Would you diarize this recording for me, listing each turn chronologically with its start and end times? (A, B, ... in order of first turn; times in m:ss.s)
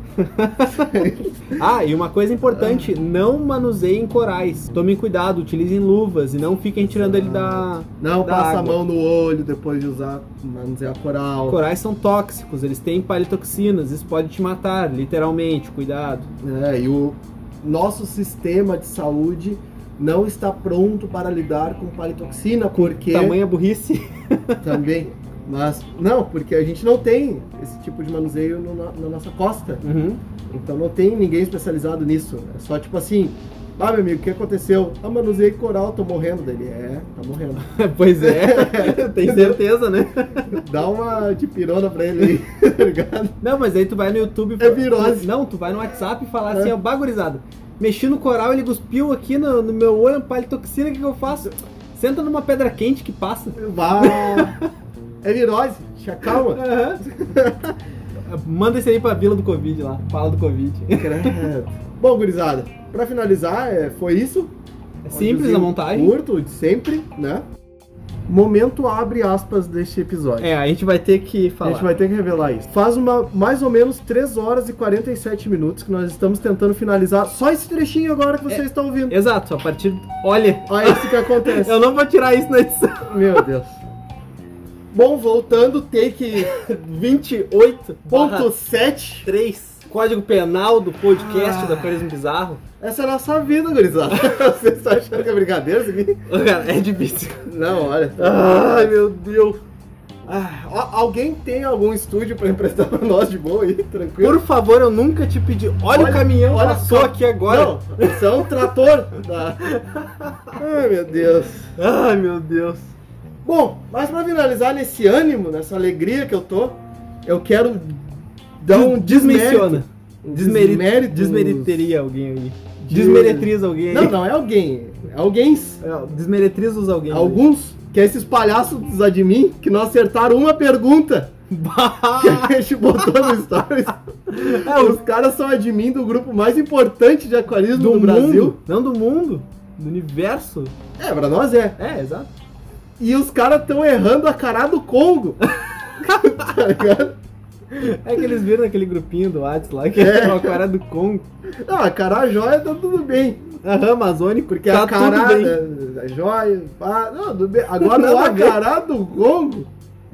0:00.2-0:08.8 A
0:00.6-0:01.6 B
0:02.5-0:03.0 B
0:06.8-0:11.6 B
0:11.5-0:16.3 A
0:16.4-0:23.4 B
0:22.7-0:24.8 A
0:24.6-0:29.8 B
0:29.8-0:30.2 A
0:30.5-0:39.6 B
0:37.6-0:40.6 A
0:40.5-0:43.4 B
0:43.4-0:54.6 A
0:44.6-0:45.3 B
0:53.5-0:54.6 B
0:55.2-0:57.7 B
0:56.2-0:57.0 A
0:58.3-1:01.5 A
1:00.9-1:04.5 B
1:05.0-1:06.2 A
1:05.1-1:07.4 B
1:08.3-1:10.5 B
1:10.4-1:11.9 A
1:11.6-1:19.2 B
1:18.5-1:23.4 A
1:20.6-1:21.8 B
1:23.0-1:23.8 B
1:24.9-1:26.5 B
1:26.4-1:28.5 A
1:28.1-1:29.3 B
1:29.2-1:32.6 A
1:31.1-1:32.0 B
1:32.8-1:36.2 B
1:36.3-1:37.5 A
1:37.4-1:38.9 B
1:38.1-1:39.6 A
1:40.2-1:44.4 B
1:44.2-1:48.7 A
1:45.9-1:49.7 B
1:49.6-1:50.6 A
1:50.6-1:51.7 B
1:51.8-1:52.9 A
1:53.4-2:01.9 B
1:58.7-2:04.2 A
2:02.8-2:05.8 B
2:05.8-2:07.4 A
2:07.1-2:11.3 B
2:11.5-2:13.3 A
2:12.2-2:18.6 B
2:14.3-2:15.0 A
2:17.7-2:20.7 A
2:21.0-2:21.8 B
2:21.8-2:22.3 A
2:23.0-2:25.4 B
2:26.0-2:26.3 A
2:26.0-2:27.2 B
2:27.7-2:31.2 A
2:29.9-2:30.6 B
2:31.5-2:33.4 B
2:33.6-2:35.6 A
2:34.5-2:39.7 B
2:37.8-2:38.6 A